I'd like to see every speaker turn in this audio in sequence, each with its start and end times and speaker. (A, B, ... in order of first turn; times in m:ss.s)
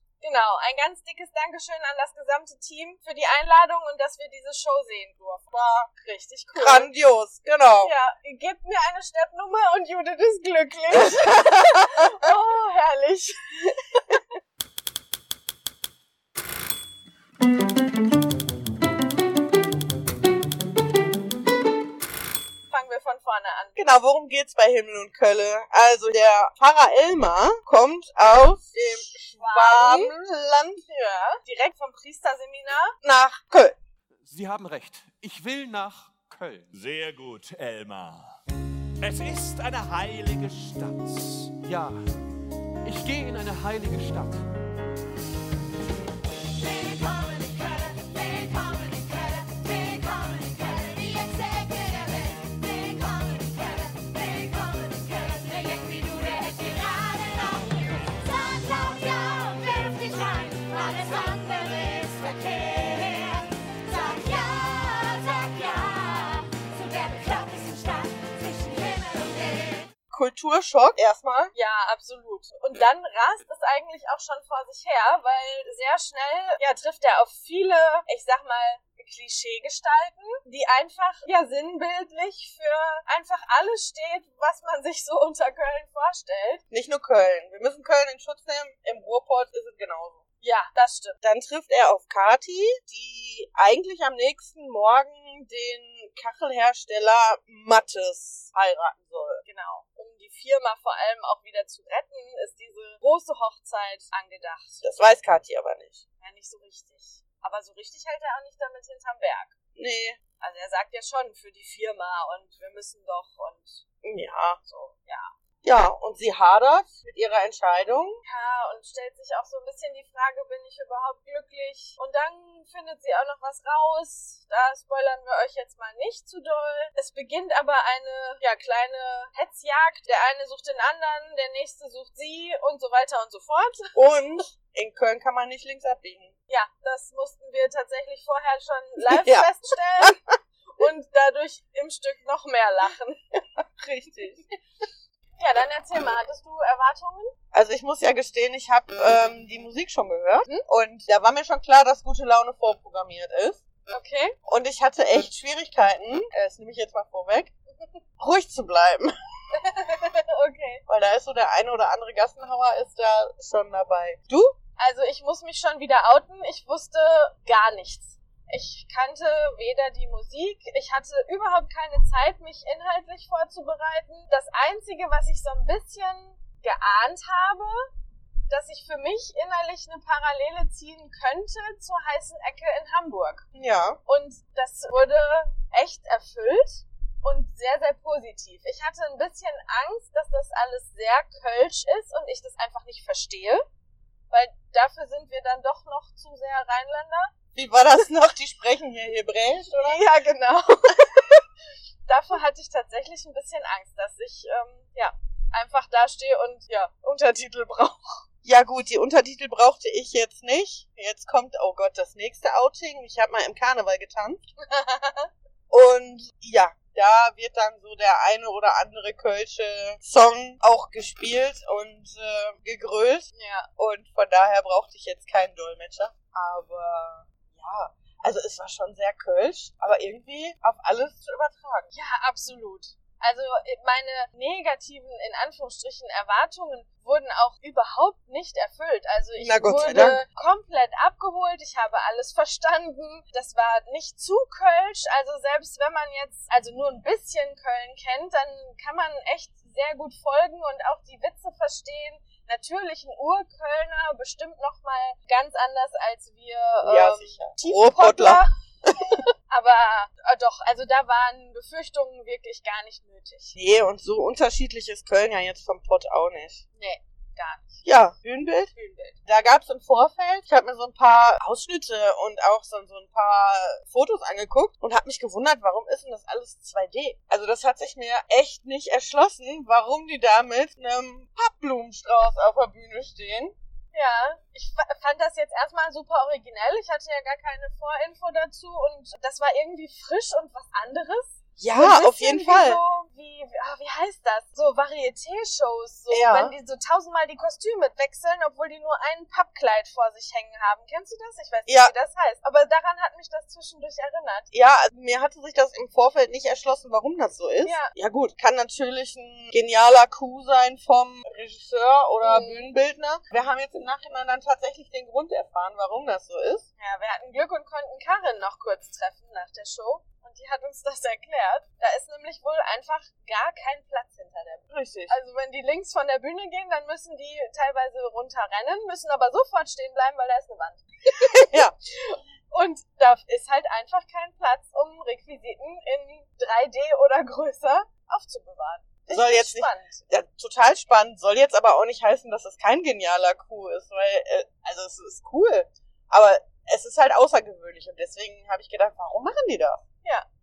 0:00.2-0:06.9 A
0:06.5-0:07.9 B
0:07.8-0:14.2 A
0:10.9-0:11.7 B
0:22.7-0:23.8 A
0:23.8-0:30.8 B
0:29.0-0:30.1 A
0:30.8-0:33.0 A
0:33.0-0:33.8 B
0:34.2-0:36.7 C
0:36.7-0:38.4 D
0:39.0-0:40.9 D
0:40.8-0:42.0 C
0:42.8-0:44.4 C
0:46.7-1:09.7 E
1:10.1-1:11.5 B
1:11.5-1:26.6 A
1:26.7-1:30.2 B
1:30.4-1:31.2 A
1:31.2-1:39.4 B
1:39.4-1:44.8 A
1:44.8-1:46.0 B
1:46.2-1:49.5 A
1:49.8-1:50.2 B
1:50.4-1:53.8 A
1:54.0-1:54.6 B
1:54.6-1:55.3 A
1:55.6-1:58.2 B
1:58.2-2:13.9 A
2:13.9-2:16.3 B
2:16.5-2:20.2 A
2:19.0-2:20.3 B
2:20.7-2:23.2 A
2:23.6-2:24.5 B
2:25.4-2:27.4 A
2:27.5-2:33.6 B
2:33.9-2:34.4 A
2:34.5-2:37.5 B
2:38.2-2:39.1 B
2:39.6-2:40.8 A
2:40.9-2:44.5 B
2:44.8-2:57.8 A
2:58.5-3:03.4 A
3:03.5-3:04.0 B
3:04.0-3:13.6 A
3:14.3-3:17.3 A
3:17.5-3:20.0 B
3:19.8-3:21.3 A
3:22.1-3:28.2 A
3:28.4-3:34.4 B
3:34.6-3:35.3 A
3:35.7-3:51.9 B
3:43.3-3:43.7 A
3:51.9-4:18.5 A
3:59.4-4:00.2 B
4:16.8-4:19.2 B
4:19.5-4:23.5 A
4:23.5-4:26.6 B
4:26.7-4:27.8 A
4:27.8-4:28.7 B
4:28.7-4:29.2 A
4:29.2-4:43.5 B
4:43.9-5:04.5 A
4:51.6-4:52.8 B
4:56.1-4:56.5 B
5:01.7-5:01.9 B
5:04.5-5:16.6 B
5:07.6-5:07.9 A
5:12.2-5:12.7 A
5:16.8-5:40.0 A
5:24.7-5:25.1 B
5:31.2-5:31.7 B
5:39.1-5:49.8 B